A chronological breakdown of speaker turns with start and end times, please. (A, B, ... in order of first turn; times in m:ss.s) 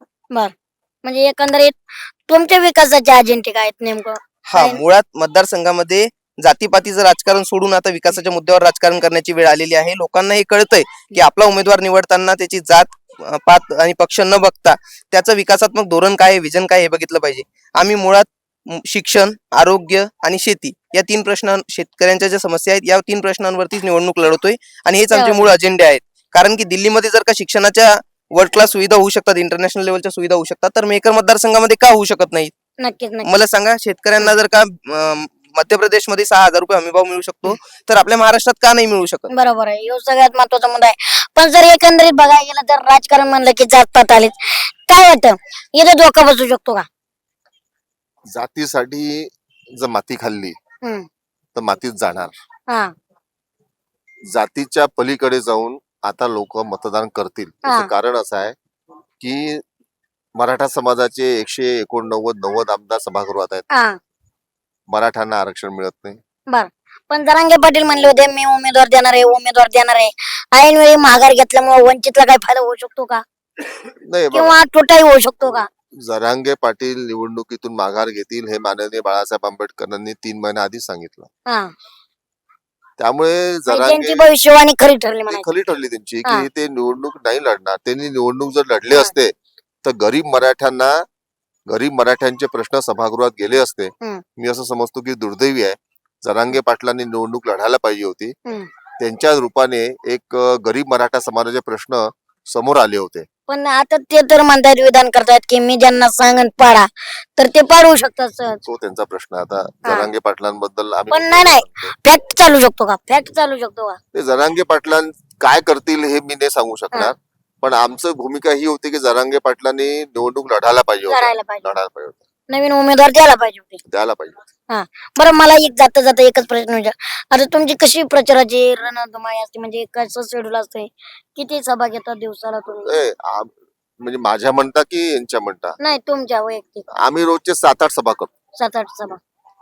0:01.0-0:04.8 A
0:04.5-0:32.5 B
0:25.1-0:25.5 A
0:32.8-0:33.3 A
0:33.2-0:39.3 B
0:39.3-0:46.9 A
0:48.3-0:50.6 C
0:51.6-0:52.3 C
0:52.7-0:52.9 A
0:54.3-0:58.6 C
0:57.6-0:57.9 A
0:59.2-0:59.6 C
1:00.4-1:03.7 C
1:03.7-1:04.0 A
1:04.9-1:06.2 C
1:06.5-1:13.2 A
1:14.1-1:14.6 C
1:14.3-1:15.7 A
1:16.0-1:21.3 C
1:21.5-1:21.7 A
1:23.0-1:24.3 C
1:23.7-1:25.4 A
1:25.3-1:29.3 C
1:29.8-1:31.0 C
1:31.7-1:38.4 C
1:39.0-1:43.3 C
1:43.5-1:48.6 A
1:48.6-1:51.9 C
1:49.8-1:50.1 A
1:51.1-1:54.0 A
1:54.1-2:02.2 C
2:01.1-2:01.7 A
2:02.5-2:03.8 A
2:03.9-2:04.4 C
2:04.7-2:13.0 A
2:12.8-2:15.8 C
2:15.8-2:16.9 A
2:17.0-2:18.3 C
2:18.6-2:19.2 A